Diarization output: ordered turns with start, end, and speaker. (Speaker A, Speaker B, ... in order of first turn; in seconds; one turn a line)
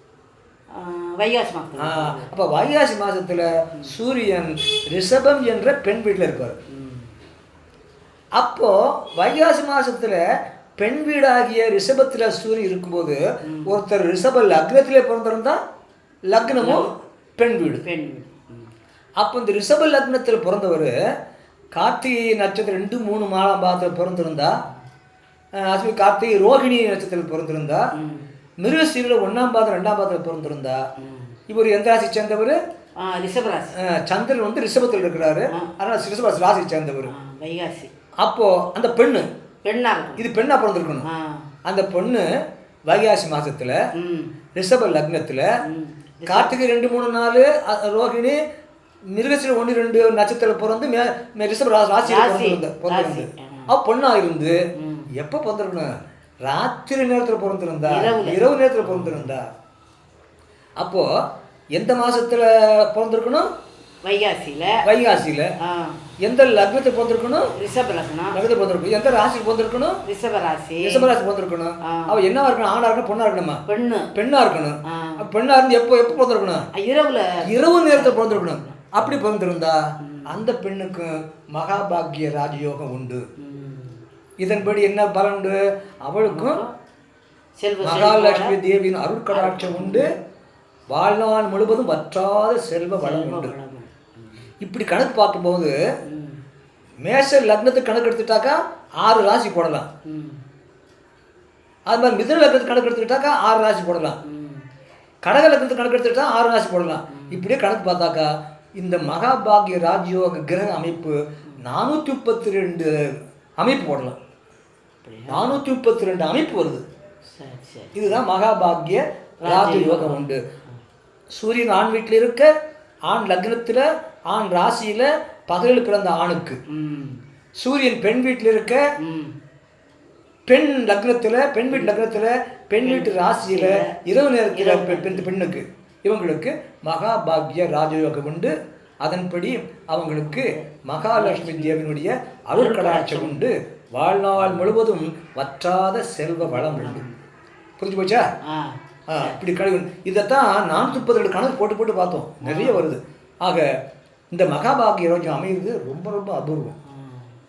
Speaker A: 0.7-2.3
Speaker B: 1.8-6.6
Speaker A: 6.7-7.1
Speaker B: 8.4-10.2
Speaker B: 10.8-15.6
Speaker A: 13.4-13.8
Speaker B: 16.3-17.8
Speaker A: 16.5-16.9
Speaker A: 17.8-18.7
Speaker B: 19.2-20.9
Speaker B: 21.7-24.5
Speaker B: 25.6-27.9
Speaker A: 28.0-28.3
Speaker B: 28.6-30.8
Speaker A: 31.0-31.4
Speaker B: 31.5-32.6
Speaker A: 33.0-33.7
Speaker B: 33.8-37.1
Speaker A: 37.1-37.9
Speaker B: 38.2-39.3
Speaker A: 39.6-40.3
Speaker B: 40.2-41.1
Speaker A: 41.0-41.5
Speaker B: 41.7-42.3
Speaker B: 42.9-43.8
Speaker A: 44.0-44.4
Speaker B: 44.5-45.5
Speaker A: 45.7-46.5
Speaker B: 46.3-48.4
Speaker B: 49.1-54.6
Speaker A: 52.0-53.7
Speaker A: 54.8-55.1
Speaker B: 55.2-55.9
Speaker B: 56.5-59.4
Speaker A: 57.9-59.4
Speaker B: 60.8-61.1
Speaker B: 61.8-63.5
Speaker A: 64.0-64.8
Speaker B: 64.9-65.5
Speaker A: 65.6-66.0
Speaker B: 66.2-67.5
Speaker A: 67.5-68.4
Speaker B: 68.3-70.0
Speaker A: 70.0-71.1
Speaker B: 70.8-73.6
Speaker A: 71.8-72.2
Speaker A: 73.7-74.1
Speaker B: 74.2-76.7
Speaker A: 74.9-75.2
Speaker A: 76.8-79.2
Speaker B: 77.4-83.2
Speaker A: 80.0-80.3
Speaker A: 83.4-84.0
Speaker B: 84.4-86.6
Speaker A: 86.2-86.7
Speaker A: 87.6-88.5
Speaker B: 87.8-90.1
Speaker A: 89.3-90.1
Speaker B: 90.9-93.5
Speaker A: 93.0-94.5
Speaker B: 94.6-95.7
Speaker A: 96.1-96.4
Speaker B: 97.0-99.9
Speaker A: 100.1-100.4
Speaker B: 101.9-104.2
Speaker A: 104.2-104.7
Speaker B: 105.2-114.2
Speaker A: 107.1-107.5
Speaker A: 115.0-115.6
Speaker B: 115.3-116.8
Speaker A: 117.3-118.2
Speaker B: 118.0-120.4
Speaker A: 119.4-120.3
Speaker B: 121.4-122.5
Speaker B: 123.1-126.6
Speaker A: 126.7-127.2
Speaker B: 127.6-128.8
Speaker A: 129.0-129.3
Speaker B: 130.5-147.1
Speaker A: 132.8-134.0
Speaker A: 134.5-135.3
Speaker A: 140.3-141.8
Speaker A: 142.5-143.5
Speaker A: 144.4-144.7
Speaker A: 146.4-147.2
Speaker B: 147.8-148.3
Speaker A: 148.4-149.4
Speaker B: 149.1-153.7
Speaker A: 150.8-151.1
Speaker A: 152.4-152.8
Speaker B: 154.3-156.8
Speaker A: 156.9-157.3